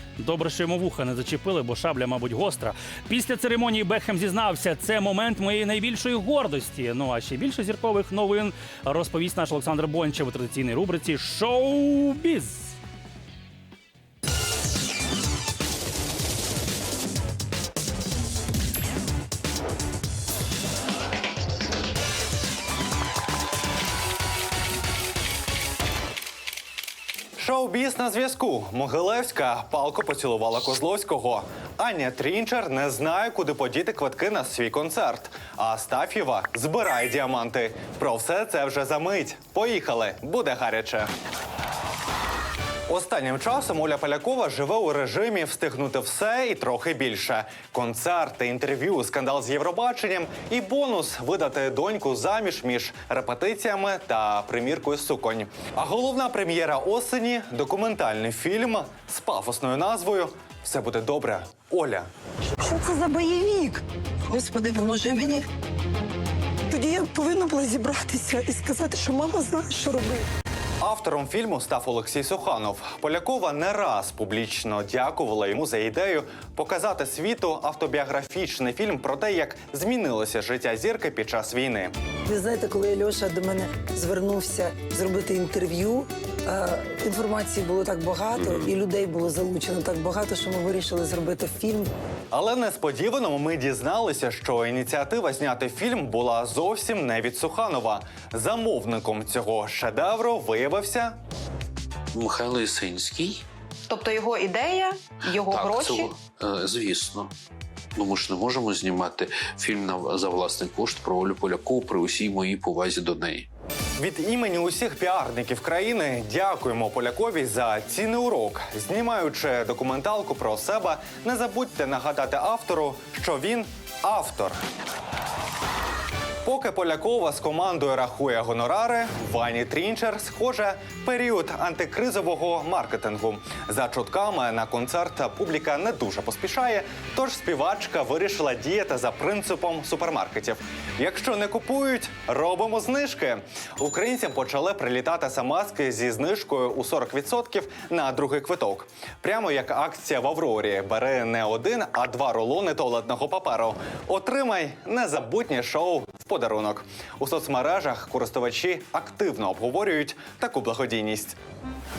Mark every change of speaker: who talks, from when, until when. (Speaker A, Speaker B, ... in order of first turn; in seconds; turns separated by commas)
Speaker A: 0.2-12.7, Speaker B: 27.4-41.1, Speaker B: 42.9-62.1, Speaker C: 62.6-65.4, Speaker C: 66.7-70.2, Speaker B: 70.8-81.9, Speaker C: 82.3-91.9, Speaker B: 92.3-101.2, Speaker D: 102.1-103.4, Speaker E: 103.9-106.1, Speaker D: 105.5-107.3, Speaker D: 108.0-113.5, Speaker B: 114.0-124.6, Speaker B: 126.4-161.3